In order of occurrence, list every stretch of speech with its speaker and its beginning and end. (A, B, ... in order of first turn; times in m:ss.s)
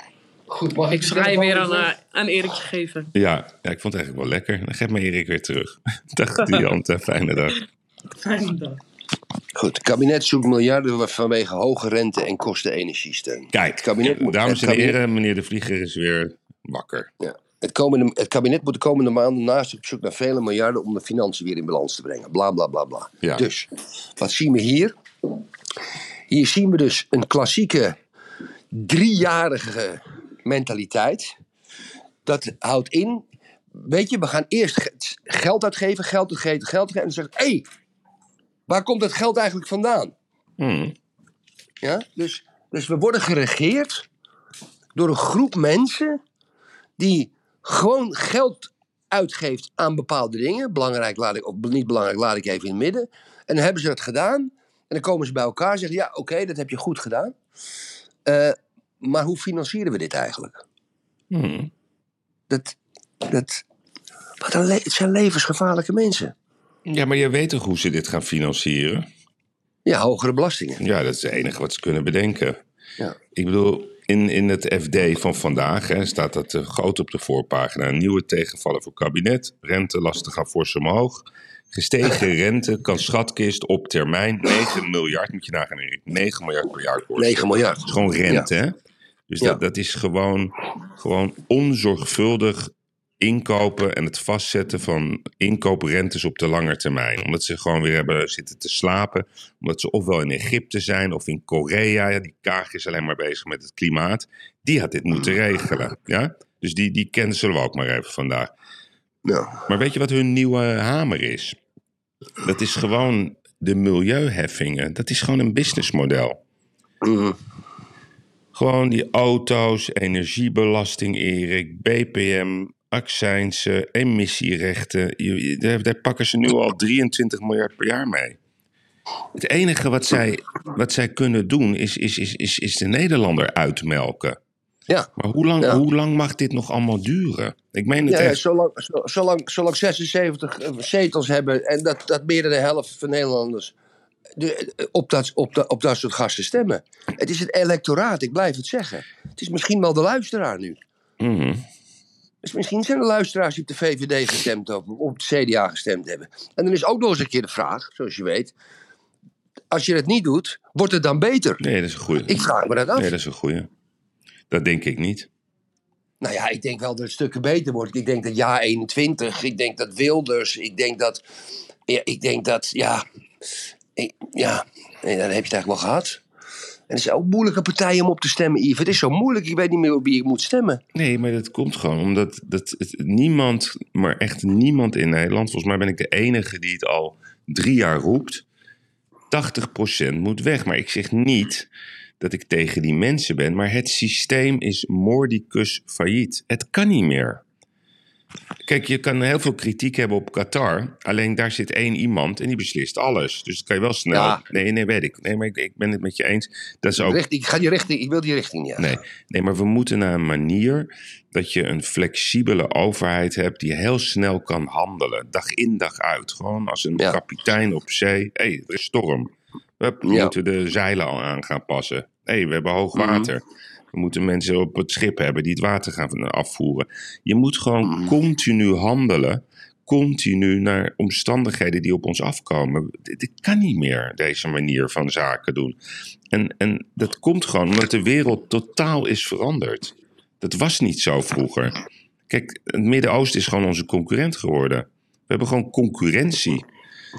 0:00.5-0:01.9 A
0:00.9-0:03.1 B
0:03.2-0:07.6 C
0:08.2-0:08.8 B
0:09.6-0:15.0 A
0:13.5-0:17.1 C
0:17.2-0:24.9 A
0:26.3-0:28.0 A
0:28.7-0:31.4 A
0:32.3-0:37.7 A
0:38.7-0:40.1 A
0:40.6-0:41.0 C
0:41.8-0:44.1 A
0:45.0-0:46.2 A
0:47.0-0:57.4 A
0:58.3-1:00.6 A
1:01.3-1:01.7 C
1:02.5-1:03.6 A
1:04.4-1:06.3 A
1:06.9-1:09.1 C
1:09.9-1:10.8 A
1:10.8-1:12.6 C
1:13.3-1:28.8 C
1:27.2-1:28.5 A
1:29.3-1:48.5 C
1:49.2-1:49.6 A
1:49.7-1:51.6 C
1:52.4-1:56.4 C
1:57.0-1:57.4 A
1:58.5-2:08.4 C
2:09.4-2:14.4 C
2:15.2-2:18.4 C
2:18.1-2:23.8 A
2:24.4-2:30.8 A
2:31.2-2:31.6 C
2:32.4-2:38.5 A
2:39.7-2:41.6 A
2:41.6-2:43.7 C
2:42.3-2:43.1 A
2:44.5-2:45.3 C
2:46.2-2:51.2 A
2:51.9-2:53.0 A
2:54.0-2:56.2 A
2:56.9-3:00.8 A
3:00.9-3:08.4 C
3:09.3-3:11.7 C
3:12.2-3:17.4 C
3:18.6-3:27.2 C
3:24.1-3:24.4 A
3:27.0-3:28.9 A
3:28.8-3:43.4 C
3:40.0-3:40.3 A
3:43.0-3:43.3 A
3:43.9-3:55.8 C
3:47.9-3:48.1 A
3:56.3-4:01.8 C
4:02.3-4:06.6 C